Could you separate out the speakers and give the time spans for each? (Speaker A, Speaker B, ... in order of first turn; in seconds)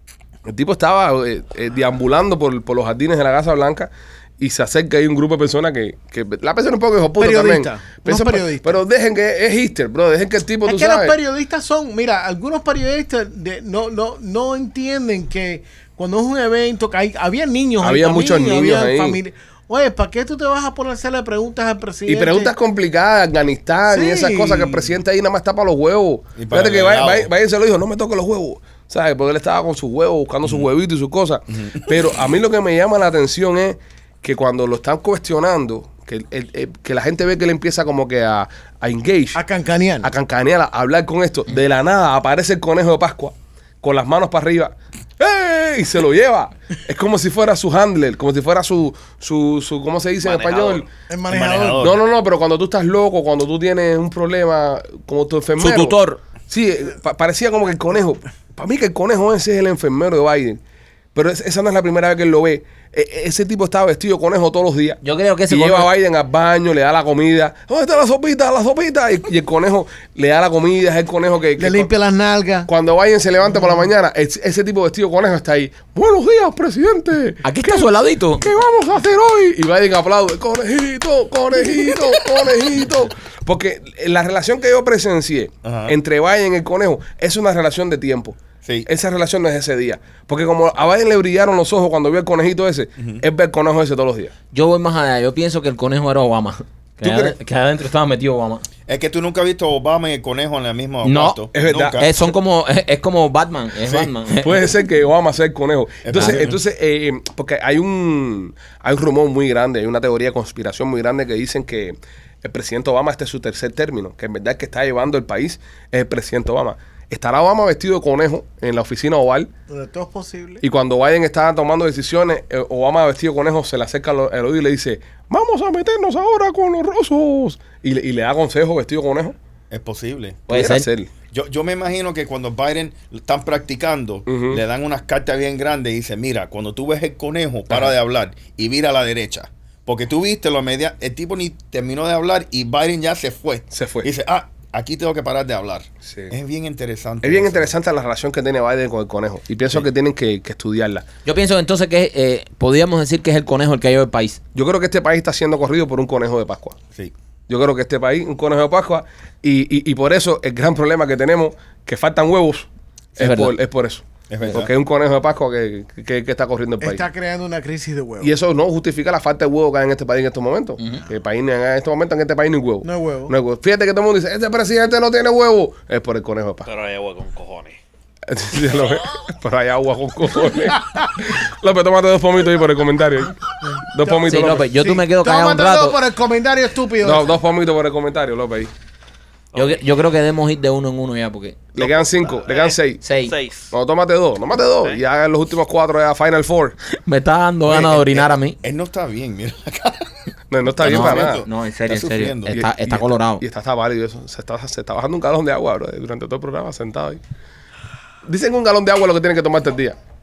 Speaker A: 0.5-11.2, 17.8-19.2, 22.1-39.4, 40.0-50.9, 51.8-60.6, 61.1-71.9, 72.7-94.3, 97.0-97.4, 101.5-102.2, 104.3-119.5, 120.6-129.4, 130.5-131.1, 134.3-134.6, 143.7-144.1, 146.0-146.3, 147.2-151.1, 154.6-156.8, 157.5-167.1, 168.2-176.7, 178.3-184.7, 187.0-188.7, 191.7-193.0, 193.7-196.8, 200.5-201.4, 202.5-207.2, 208.2-210.0
Speaker B: 7.2-8.8, 10.7-22.5, 23.9-24.9, 39.4-40.1, 51.1-51.9, 71.6-72.7, 119.7-120.6, 166.8-168.3, 172.8-173.3, 183.6-187.3
Speaker C: 26.4-27.3, 31.5-32.1, 51.3-52.0, 85.6-86.0, 88.6-88.9, 93.0-93.2, 98.9-102.1, 106.0-106.6, 129.7-130.4, 131.3-147.7, 164.3-164.7, 197.7-200.2, 200.8-202.6
Speaker D: 50.2-50.9, 176.7-177.8, 191.8-193.7
Speaker E: 55.6-56.2, 65.0-65.9, 77.4-78.5, 94.5-98.7, 101.0-104.7, 106.2-106.5, 130.5-130.9, 151.2-154.4, 163.2-163.5, 170.8-171.1, 184.2-186.0, 189.6-191.6, 193.0-193.3, 196.9-198.6, 200.8-203.4